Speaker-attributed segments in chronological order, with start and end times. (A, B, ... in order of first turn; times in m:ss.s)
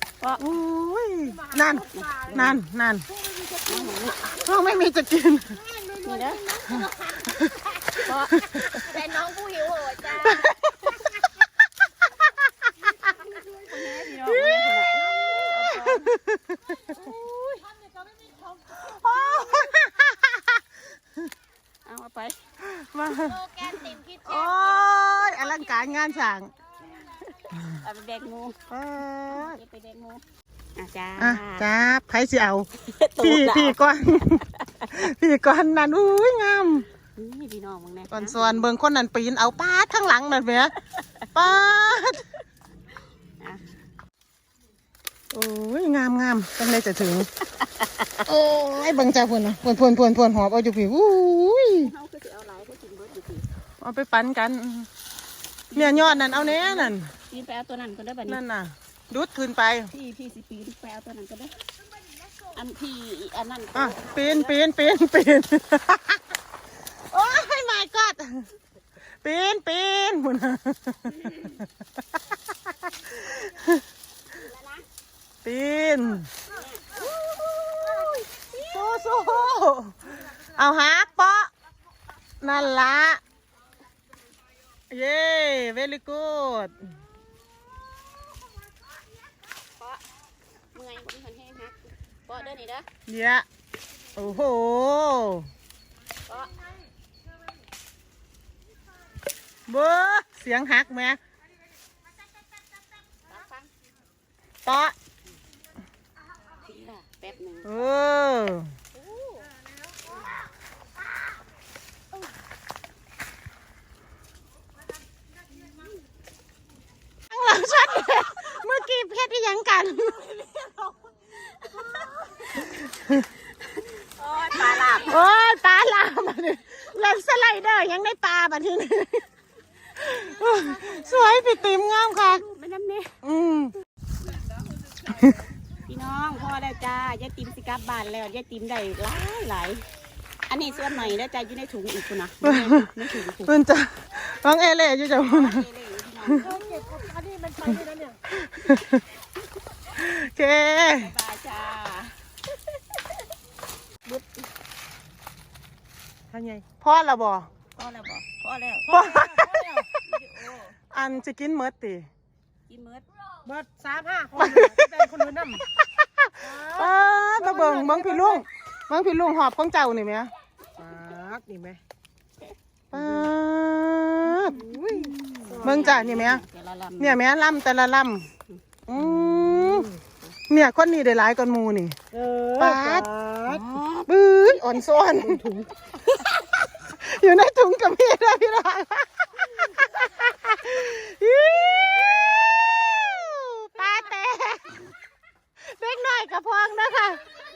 0:00.2-0:00.5 A
0:00.4-0:03.1 B
0:01.4-0:02.4 C
0:01.8-0:02.6 A
0:03.2-0:04.4 C
0:03.6-0:04.3 A
0:04.2-0:05.6 B
0:05.6-0:08.0 C
0:06.0-0:06.6 A
0:07.3-0:07.6 B
0:08.0-0:08.5 A
0:08.4-0:08.8 B
0:08.5-0:10.5 C
0:10.2-0:10.5 B
0:13.0-0:16.1 A
0:14.3-0:17.2 B
0:14.9-0:15.4 C
0:17.0-0:19.7 C
0:18.7-0:20.5 B
0:21.8-0:22.4 A
0:22.6-0:26.5 B
0:23.3-0:25.3 C
0:27.7-0:28.6 A
0:28.7-0:29.6 B
0:29.3-0:30.2 A
0:30.7-0:31.7 A
0:31.2-0:32.7 B
0:32.8-0:33.9 A
0:33.2-0:36.8 B
0:37.2-0:38.7 A
0:38.1-0:40.7 B
0:41.3-0:42.2 B
0:45.3-0:47.3 B
0:47.6-0:48.1 A
0:48.2-0:51.9 B
0:51.8-0:53.5 A
0:53.8-0:54.9 B
0:55.7-0:58.4 A
0:55.7-0:57.1 B
0:58.3-0:59.9 B
0:59.9-1:01.6 A
1:02.5-1:04.6 A
1:03.7-1:06.2 B
1:07.1-1:08.4 B
1:09.2-1:11.5 B
1:13.1-1:13.4 A
1:13.2-1:13.8 B
1:14.3-1:14.8 A
1:15.4-1:16.3 B
1:16.5-1:17.1 A
1:17.3-1:21.5 B
1:18.3-1:18.8 A
1:22.4-1:23.2 B
1:24.9-1:26.7 B
1:29.8-1:30.0 A
1:30.7-1:32.9 A
1:33.1-1:33.4 B
1:34.2-1:35.5 B
1:36.3-1:36.6 A
1:39.7-1:41.2 B
1:43.3-1:43.7 A
1:44.6-1:44.9 B
1:46.6-1:47.7 A
1:47.6-1:48.7 B
1:49.0-1:49.5 A
1:57.3-2:00.2 B
2:00.1-2:05.2 A
2:05.0-2:09.2 B
2:09.9-2:12.4 B
2:12.0-2:13.1 A
2:13.2-2:13.7 B
2:15.1-2:15.4 B
2:15.8-2:19.9 A
2:20.5-2:23.5 A
2:22.4-2:22.9 B
2:23.4-2:25.6 B
2:25.2-2:27.0 A
2:26.4-2:28.2 C
2:28.3-2:29.0 B
2:29.9-2:31.1 B
2:30.9-2:32.2 A
2:34.0-2:34.4 A
2:36.3-2:36.6 C
2:36.8-2:37.5 B
2:37.8-2:39.0 A
2:38.9-2:39.7 B
2:38.9-2:39.9 C
2:40.0-2:40.8 A
2:40.9-2:42.1 B
2:42.7-2:43.0 A
2:43.4-2:45.6 C
2:44.4-2:45.0 B
2:45.8-2:50.3 B
2:46.4-2:48.4 C
2:50.8-2:51.8 C
2:52.9-2:54.6 B
2:52.9-2:53.3 C
2:54.5-2:57.2 A
2:54.6-2:55.8 C
2:55.6-2:56.4 B
2:57.0-2:58.3 B
2:58.9-2:59.9 B
2:59.4-3:00.0 C
3:00.5-3:02.0 B
3:02.1-3:03.6 C
3:02.6-3:03.1 B
3:03.5-3:04.1 A
3:04.0-3:05.7 B
3:06.8-3:14.8 B
3:15.6-3:17.2 B